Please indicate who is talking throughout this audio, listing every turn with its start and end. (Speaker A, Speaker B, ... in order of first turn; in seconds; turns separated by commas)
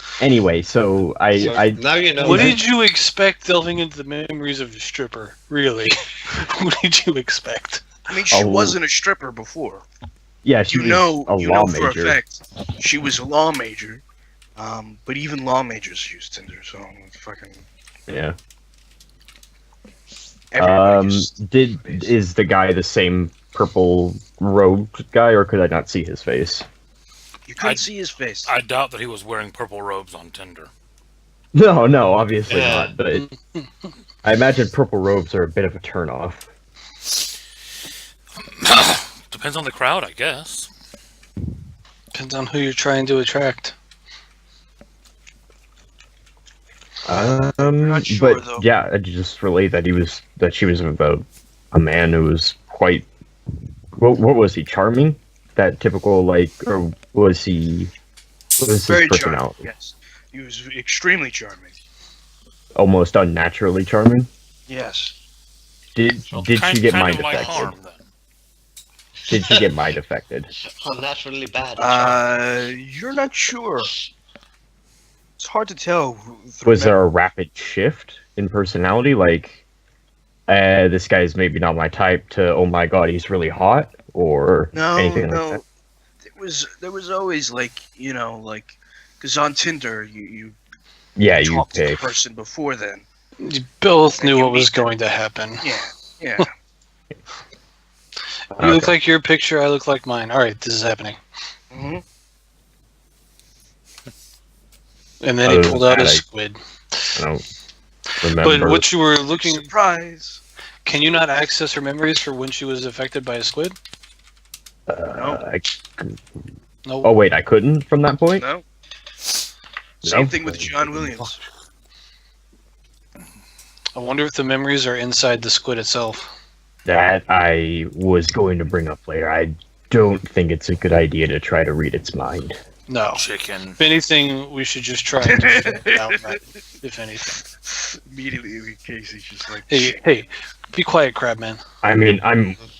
Speaker A: 0.2-2.5, Speaker B: 1.4-2.6, Speaker C: 2.2-7.8, Speaker D: 8.1-9.8, Speaker A: 8.3-8.8, Speaker A: 10.4-12.2, Speaker D: 10.7-14.0, Speaker D: 14.6-17.6, Speaker A: 18.1-18.4, Speaker D: 20.5-22.1, Speaker A: 20.6-26.7, Speaker D: 27.5-28.5, Speaker E: 27.6-27.9, Speaker E: 28.4-30.7, Speaker A: 31.5-33.3, Speaker B: 32.5-33.0, Speaker A: 34.2-36.5, Speaker E: 38.4-40.7, Speaker C: 42.1-43.7, Speaker A: 47.0-53.1, Speaker D: 47.8-48.6, Speaker A: 54.0-57.9, Speaker A: 58.6-59.6, Speaker D: 58.9-61.7, Speaker A: 62.8-64.3, Speaker D: 64.7-65.1, Speaker A: 65.9-67.7, Speaker E: 66.3-68.1, Speaker A: 69.3-70.5, Speaker B: 70.8-72.3, Speaker D: 71.7-73.9, Speaker D: 75.4-77.0, Speaker A: 76.6-79.6, Speaker A: 80.5-85.6, Speaker D: 84.7-85.6, Speaker D: 86.3-90.5, Speaker A: 91.2-92.1, Speaker D: 91.4-93.0, Speaker C: 93.4-95.7, Speaker D: 94.2-94.9, Speaker D: 95.6-96.5, Speaker A: 98.5-99.0, Speaker C: 98.6-101.2, Speaker D: 101.7-102.0, Speaker C: 105.2-106.6, Speaker A: 105.4-106.2, Speaker A: 107.1-107.4, Speaker A: 108.2-108.9, Speaker C: 108.4-109.7, Speaker D: 109.3-110.4, Speaker C: 110.8-113.8, Speaker A: 114.9-116.2, Speaker D: 115.1-115.4, Speaker C: 116.8-117.1, Speaker A: 117.0-118.5, Speaker D: 118.4-118.6, Speaker D: 120.0-121.4, Speaker A: 120.0-121.3, Speaker C: 123.9-126.3, Speaker A: 126.8-132.6, Speaker C: 132.9-133.2, Speaker E: 133.2-133.8, Speaker C: 133.8-137.3, Speaker D: 135.2-136.1, Speaker D: 137.7-140.0, Speaker C: 139.7-141.6, Speaker A: 141.8-142.6